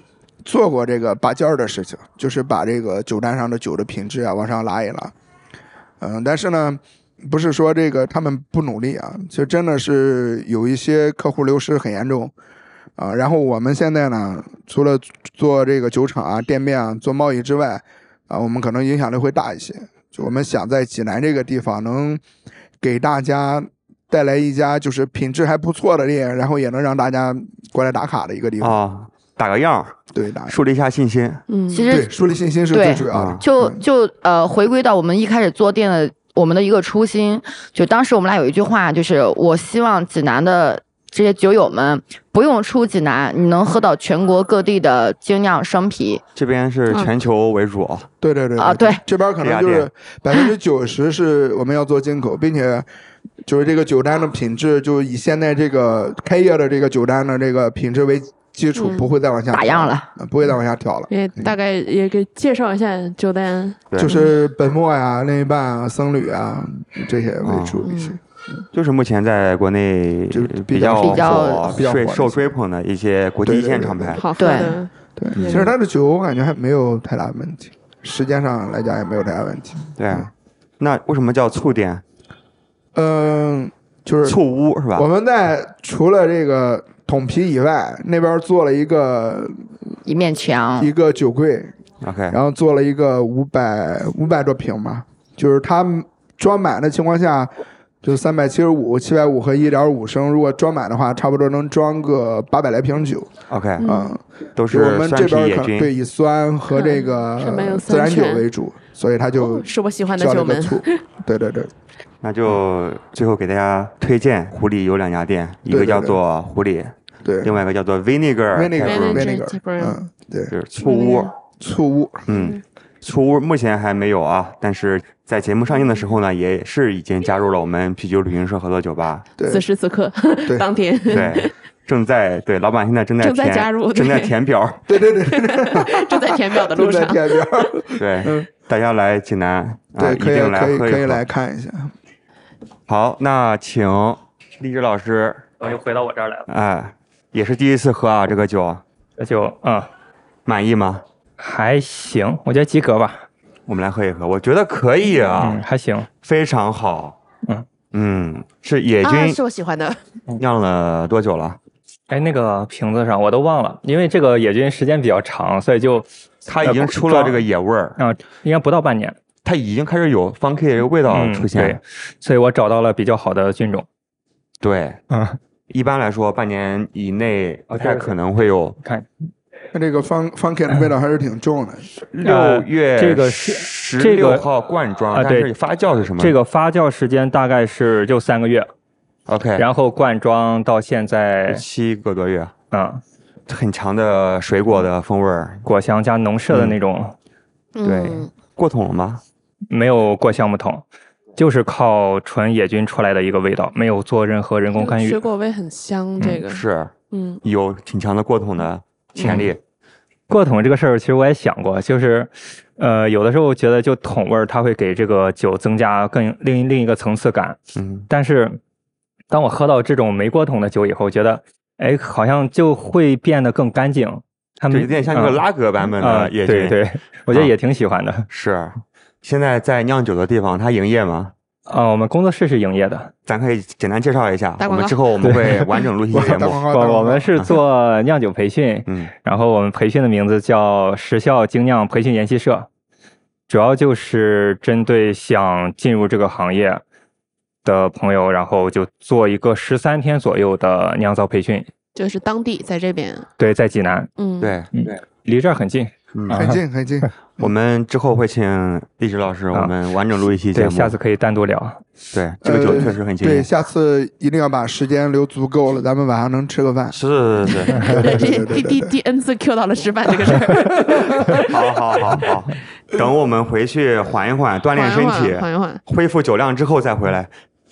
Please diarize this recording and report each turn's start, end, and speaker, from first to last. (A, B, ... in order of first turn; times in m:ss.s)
0:00.4-0:05.1 A
0:06.0-0:12.3 A
0:13.0-0:22.2 A
0:22.8-0:28.8 A
0:28.6-0:30.0 B
0:30.1-0:30.6 A
0:30.5-0:31.4 B
0:31.5-0:31.9 C
0:31.7-0:32.1 D
0:31.9-0:33.8 A
0:32.7-0:46.2 D
0:33.1-0:33.4 B
0:46.4-0:48.1 B
0:48.2-0:52.9 A
0:48.6-0:49.0 D
0:49.4-0:49.9 B
0:53.4-1:01.5 A
0:58.8-0:59.1 C
0:59.5-1:00.1 D
1:01.1-1:04.3 C
1:03.9-1:04.2 B
1:04.0-1:08.2 A
1:07.4-1:07.8 B
1:07.8-1:08.2 C
1:08.7-1:14.2 B
1:10.3-1:12.5 A
1:11.0-1:11.8 D
1:13.4-1:14.2 A
1:14.2-1:15.7 C
1:14.4-1:14.8 D
1:15.2-1:20.3 A
1:20.0-1:22.0 B
1:23.0-1:24.4 A
1:24.2-1:25.1 B
1:24.9-1:29.7 A
1:30.1-1:30.9 D
1:30.8-1:31.7 A
1:32.0-1:32.4 B
1:32.3-1:37.5 A
1:38.0-1:43.3 A
1:43.5-1:43.9 B
1:43.8-1:44.2 C
1:43.8-1:51.7 A
1:44.6-1:45.9 B
1:46.7-1:48.5 C
1:49.4-1:51.0 C
1:52.2-1:59.3 B
1:55.7-1:56.2 A
1:57.2-1:57.6 A
1:58.5-2:00.5 A
1:58.8-2:00.0 C
2:00.5-2:01.3 B
2:00.8-2:01.3 C
2:01.6-2:02.3 A
2:02.3-2:02.6 C
2:02.3-2:09.3 B
2:09.4-2:09.6 A
2:09.4-2:11.5 C
2:11.1-2:14.8 B
2:13.2-2:14.4 C
2:14.9-2:18.5 A
2:15.2-2:17.5 C
2:18.0-2:21.2 B
2:20.0-2:21.9 A
2:22.9-2:25.5 B
2:25.6-2:26.5 E
2:26.5-2:28.8 B
2:29.2-2:29.9 E
2:30.4-2:31.0 B
2:31.4-2:33.2 E
2:33.7-2:35.6 B
2:35.3-2:36.1 E
2:36.2-2:37.2 B
2:37.9-2:39.4 B
2:39.0-2:40.0 C
2:40.4-2:41.6 B
2:42.1-2:46.1 E
2:46.5-2:48.0 B
2:46.6-2:47.5 E
2:48.0-2:49.2 E
2:49.4-2:51.8 B
2:51.0-2:53.9 E
2:54.6-2:55.0 B
2:55.1-2:55.4 E
2:55.7-2:58.8 B
2:57.7-2:58.2 E
2:58.8-2:59.1 E
2:59.7-3:01.9 A
3:02.1-3:06.4 B
3:02.2-3:04.5 E
3:05.1-3:05.5 E
3:06.2-3:08.7 E
3:09.3-3:09.7 B
3:09.6-3:11.6 E
3:11.5-3:12.6 B
3:12.7-3:13.0 E
3:13.5-3:15.7 B
3:15.6-3:17.2 E
3:16.5-3:16.8 B
3:17.8-3:18.3 C
3:17.8-3:19.2 B
3:19.7-3:20.8 E
3:21.4-3:25.2 E
3:24.8-3:27.4 C
3:26.5-3:26.9 B
3:27.4-3:29.6 B
3:29.2-3:29.5 C
3:30.3-3:37.6 E
3:37.8-3:38.1 B
3:38.1-3:38.6 E
3:39.3-3:48.3 E
3:44.7-3:46.8 B
3:48.3-3:51.3 B
3:51.7-3:53.1 E
3:53.3-3:56.6 B
3:54.6-3:55.1 C
3:55.2-4:02.7 E
3:56.1-3:57.3 A
4:03.5-4:06.8 E
4:07.6-4:11.7 E
4:12.0-4:13.3 C
4:13.4-4:14.1 E
4:14.2-4:14.6 C
4:14.4-4:15.0 B
4:14.7-4:16.6 E
4:16.1-4:16.4 B
4:16.3-4:17.5 A
4:17.4-4:21.0 B
4:20.5-4:21.8 E
4:22.1-4:23.5 B
4:22.4-4:27.0 A
4:26.9-4:28.1 B
4:27.5-4:31.7 C
4:27.7-4:29.0 A
4:30.8-4:31.4 A
4:31.5-4:37.3 B
4:34.7-4:35.8 C